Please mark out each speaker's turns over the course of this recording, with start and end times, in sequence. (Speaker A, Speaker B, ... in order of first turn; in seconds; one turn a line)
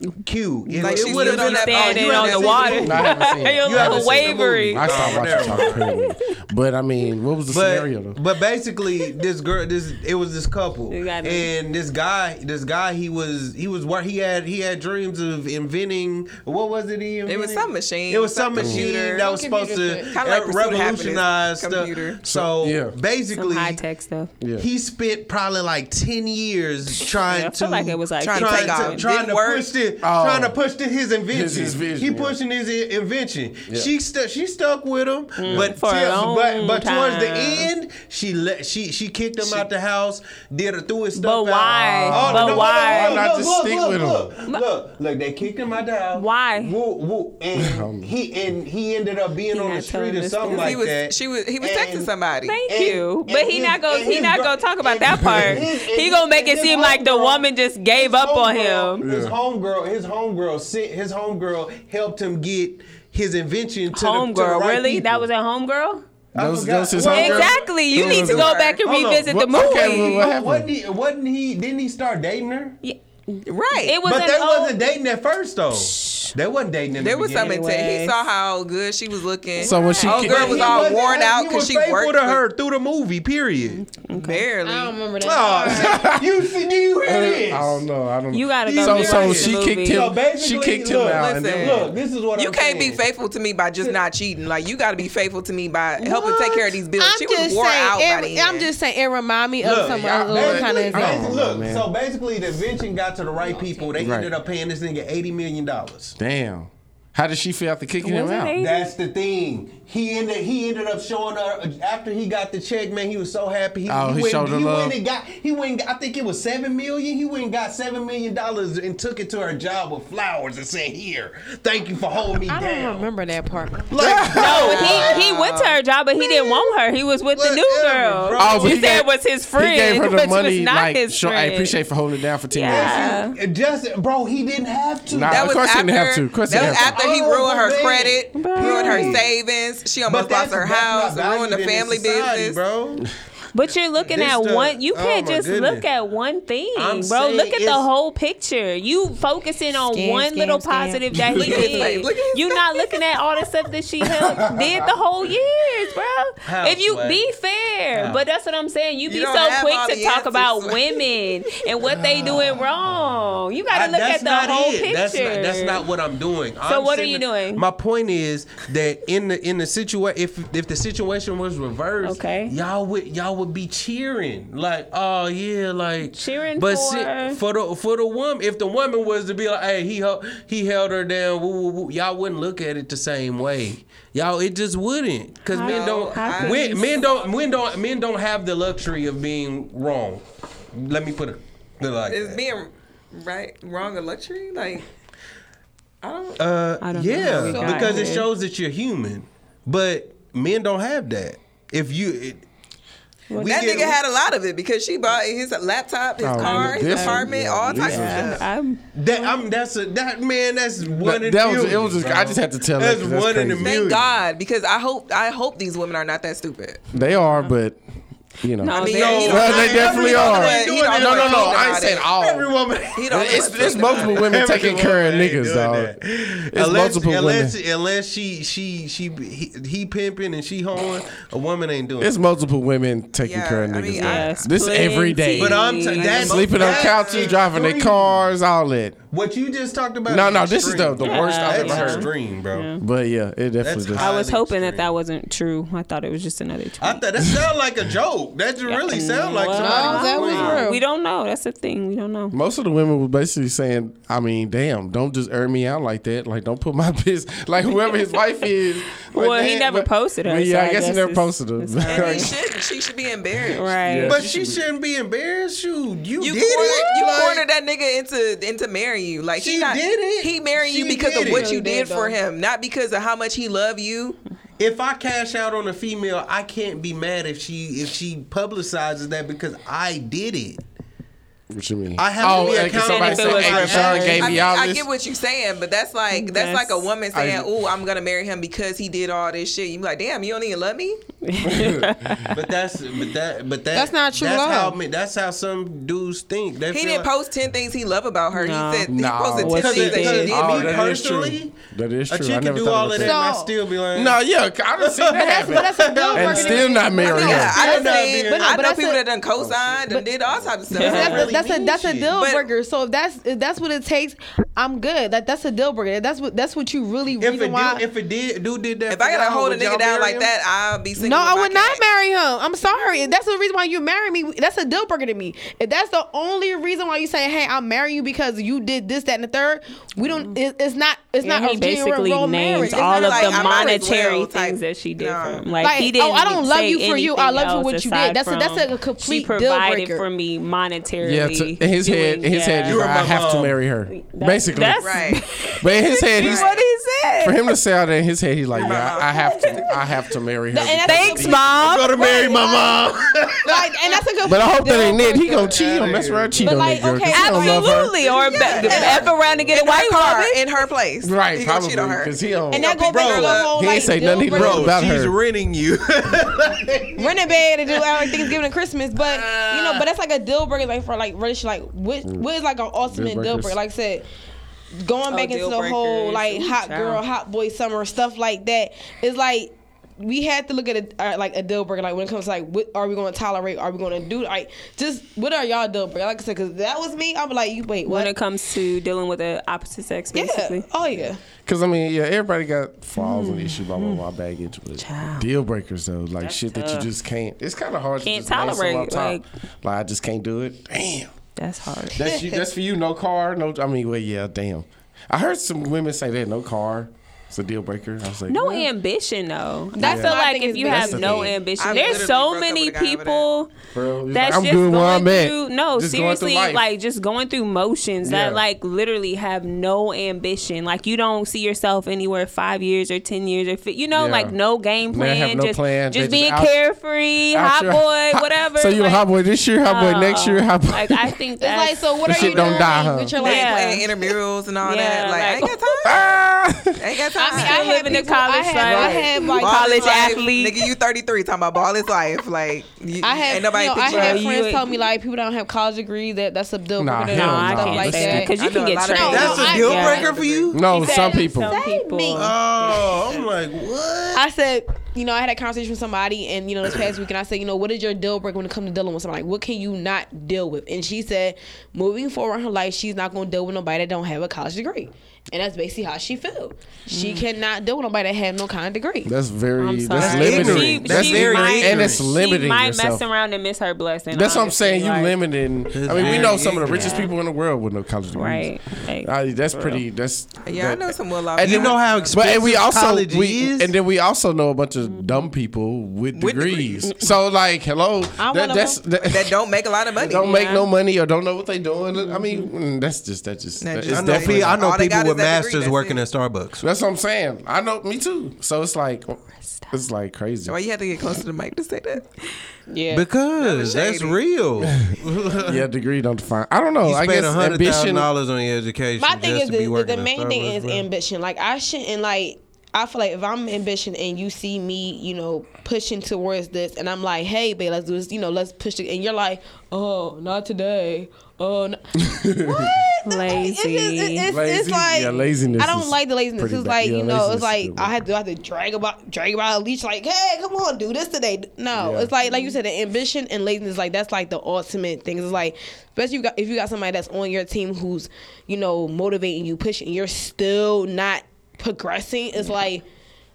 Speaker A: 0.2-5.9
Speaker B: 0.7-6.1
Speaker C: 0.8-2.9
Speaker D: 2.8-8.2
Speaker A: 7.5-23.8
Speaker B: 10.9-11.5
Speaker C: 17.2-19.3
Speaker D: 18.5-18.8
Speaker E: 18.8-20.1
Speaker C: 20.1-22.2
Speaker D: 22.2-22.9
Speaker B: 23.3-24.3
Speaker D: 24.4-24.7
Speaker A: 24.6-52.1
Speaker B: 27.0-29.1
Speaker C: 28.2-29.7
Speaker D: 30.0-30.6
Speaker D: 31.3-32.4
Speaker B: 35.4-37.7
Speaker D: 35.5-35.7
Speaker B: 41.1-43.2
Speaker D: 41.9-44.3
Speaker B: 46.1-46.8
Speaker D: 47.5-48.1
Speaker B: 49.5-50.7
Speaker C: 50.5-52.6
Speaker B: 52.5-59.0
Speaker A: 52.6-65.3
Speaker D: 59.0-59.4
Speaker B: 63.9-66.0
Speaker A: 66.3-72.8
Speaker D: 66.3-68.5
Speaker B: 67.0-70.3
Speaker C: 67.9-68.8
Speaker D: 69.3-70.7
Speaker B: 72.8-74.8
Speaker C: 73.5-74.0
Speaker A: 74.0-77.6
Speaker B: 75.7-76.3
Speaker C: 77.0-82.4
Speaker B: 77.3-78.1
Speaker D: 79.6-80.7
Speaker B: 79.6-80.9
Speaker A: 80.1-83.8
Speaker B: 83.8-84.4
Speaker C: 84.1-85.0
Speaker E: 84.6-86.1
Speaker A: 85.2-87.8
Speaker D: 85.7-86.3
Speaker D: 87.0-91.9
Speaker B: 88.3-90.1
Speaker A: 88.6-93.0
Speaker C: 91.0-98.7
Speaker E: 96.0-101.3
Speaker A: 99.6-106.2
Speaker D: 99.7-101.8
Speaker D: 104.0-104.3
Speaker D: 106.2-108.5
Speaker B: 108.0-108.9
Speaker A: 108.5-123.1
Speaker D: 113.9-115.0
Speaker E: 122.5-125.1
Speaker A: 123.9-125.5
Speaker D: 124.0-124.6
Speaker B: 124.3-131.8
Speaker C: 124.9-125.7
Speaker A: 126.2-126.7
Speaker A: 127.3-129.1
Speaker D: 128.4-133.1
Speaker B: 132.5-133.3
Speaker A: 132.6-135.6
Speaker D: 135.1-137.0
Speaker C: 135.3-142.6
Speaker A: 136.5-139.3
Speaker B: 138.3-139.2
Speaker A: 140.1-143.1
Speaker B: 143.5-165.8
Speaker A: 144.0-145.9
Speaker A: 146.7-147.9
Speaker E: 149.9-151.9
Speaker C: 151.3-153.0
Speaker D: 154.2-154.8
Speaker A: 156.4-157.2
Speaker C: 159.1-161.0
Speaker A: 161.9-162.7
Speaker A: 163.7-192.4
Speaker B: 166.6-167.6
Speaker B: 172.0-172.6
Speaker B: 176.1-177.4
Speaker B: 185.5-186.9
Speaker C: 185.6-187.3
Speaker C: 192.1-194.8
Speaker C: 196.0-196.4
Speaker A: 196.4-202.4
Speaker B: 196.8-198.3
Speaker E: 197.5-198.1
Speaker C: 197.6-198.0
Speaker B: 203.3-203.7
Speaker A: 203.3-204.0
Speaker C: 203.4-208.4
Speaker D: 206.2-208.4
Speaker B: 206.4-209.4
Speaker A: 208.9-214.1
Speaker D: 211.0-213.8
Speaker C: 213.6-216.8
Speaker D: 216.9-217.8
Speaker D: 218.4-222.5
Speaker B: 218.6-219.7
Speaker C: 218.7-222.1
Speaker A: 218.8-232.1
Speaker C: 222.9-224.4
Speaker D: 223.1-225.9
Speaker D: 226.5-227.6
Speaker D: 232.0-235.6
Speaker C: 233.2-234.5
Speaker B: 234.0-236.4
Speaker A: 235.3-238.3
Speaker C: 235.7-237.4
Speaker D: 236.2-239.0
Speaker A: 239.1-242.7
Speaker D: 240.1-242.1
Speaker B: 241.0-242.8
Speaker D: 242.8-244.1
Speaker A: 243.6-244.9
Speaker B: 243.9-247.0
Speaker A: 246.8-250.7
Speaker B: 248.7-252.3
Speaker E: 249.5-250.8
Speaker D: 252.3-262.4
Speaker B: 257.8-258.2
Speaker B: 259.0-262.3
Speaker C: 261.9-263.7
Speaker B: 263.5-264.2
Speaker D: 263.8-264.6
Speaker A: 264.0-267.4
Speaker C: 266.2-274.2
Speaker A: 269.4-271.5
Speaker E: 271.2-272.1
Speaker A: 274.6-280.6
Speaker D: 281.5-284.9
Speaker A: 282.0-284.5
Speaker B: 282.7-284.3
Speaker C: 284.0-291.0
Speaker B: 286.1-286.8
Speaker D: 287.1-287.5
Speaker B: 291.2-292.4
Speaker D: 291.4-292.3
Speaker A: 292.3-297.1
Speaker E: 293.7-294.8
Speaker C: 296.7-300.9
Speaker B: 298.3-300.4
Speaker D: 298.9-303.2
Speaker A: 299.5-301.6
Speaker A: 302.1-304.2
Speaker E: 302.9-303.5
Speaker D: 303.9-307.6
Speaker A: 304.8-308.6
Speaker E: 305.1-309.0
Speaker C: 307.0-311.3
Speaker D: 309.4-309.8
Speaker B: 310.7-311.3
Speaker E: 310.7-317.8
Speaker A: 310.8-312.1
Speaker C: 312.1-312.5
Speaker A: 317.2-320.3
Speaker C: 318.9-321.8
Speaker E: 321.0-333.7
Speaker B: 331.2-342.8
Speaker C: 332.6-335.5
Speaker E: 335.6-340.1
Speaker D: 341.0-344.9
Speaker A: 342.6-343.6
Speaker B: 343.9-347.4
Speaker C: 344.8-345.4
Speaker D: 345.6-346.5
Speaker E: 346.2-346.6
Speaker D: 347.2-351.5
Speaker C: 348.5-349.8
Speaker E: 350.5-352.9
Speaker B: 350.8-352.0
Speaker A: 351.5-354.0
Speaker E: 353.4-355.8
Speaker D: 354.2-357.9
Speaker A: 355.1-356.6
Speaker E: 356.4-359.0
Speaker B: 357.1-360.4
Speaker C: 358.1-363.8
Speaker D: 361.0-362.7
Speaker E: 362.5-364.8
Speaker A: 362.8-363.6
Speaker D: 363.5-365.1
Speaker A: 364.2-368.4
Speaker E: 367.0-374.0
Speaker A: 369.0-369.9
Speaker D: 372.8-373.6
Speaker E: 374.7-388.1
Speaker B: 375.1-377.0
Speaker B: 387.9-390.6
Speaker E: 390.1-391.2
Speaker D: 391.0-401.1
Speaker B: 392.9-394.0
Speaker B: 394.8-395.3
Speaker B: 396.2-396.9
Speaker B: 398.0-399.2
Speaker B: 401.4-402.1
Speaker D: 401.9-408.7
Speaker E: 402.0-402.4
Speaker B: 408.3-413.5
Speaker E: 409.8-411.4
Speaker D: 409.8-411.4
Speaker C: 411.6-413.3
Speaker D: 413.7-416.6
Speaker B: 414.1-429.1
Speaker D: 418.0-418.4
Speaker D: 423.9-424.4
Speaker D: 424.9-426.6
Speaker D: 427.3-431.1
Speaker B: 429.6-433.9
Speaker E: 431.4-433.9
Speaker D: 432.0-433.1
Speaker C: 433.2-436.2
Speaker B: 434.6-436.0
Speaker D: 435.8-436.8
Speaker C: 436.8-438.0
Speaker E: 437.1-440.1
Speaker B: 437.3-440.7
Speaker D: 438.6-439.1
Speaker C: 439.4-444.2
Speaker E: 443.0-448.4
Speaker B: 443.8-444.8
Speaker D: 446.8-448.3
Speaker B: 447.1-450.1
Speaker C: 448.3-450.6
Speaker E: 448.9-450.1
Speaker A: 449.0-450.7
Speaker D: 450.5-451.6
Speaker B: 450.7-453.3
Speaker E: 450.7-452.3
Speaker A: 452.1-454.2
Speaker E: 454.1-469.1
Speaker B: 466.9-467.2
Speaker D: 469.0-473.1
Speaker B: 469.6-475.2
Speaker A: 469.9-472.1
Speaker D: 474.1-478.5
Speaker A: 475.7-477.0
Speaker B: 476.0-477.1
Speaker B: 478.1-479.8
Speaker D: 479.0-489.4
Speaker C: 480.4-482.1
Speaker A: 481.4-483.7
Speaker C: 486.1-486.9
Speaker E: 488.2-488.8
Speaker C: 489.0-490.6
Speaker D: 490.0-494.6
Speaker B: 490.3-490.6
Speaker B: 492.0-492.5
Speaker C: 493.6-496.0
Speaker A: 493.9-496.6
Speaker D: 496.6-500.6
Speaker C: 500.4-502.1
Speaker E: 502.7-503.1
Speaker A: 502.9-505.6
Speaker C: 503.4-504.2
Speaker D: 504.6-508.1
Speaker A: 506.8-510.8
Speaker E: 509.0-542.8
Speaker D: 522.0-522.9
Speaker B: 523.0-524.3
Speaker D: 524.3-527.9
Speaker B: 525.1-525.6
Speaker D: 531.7-532.1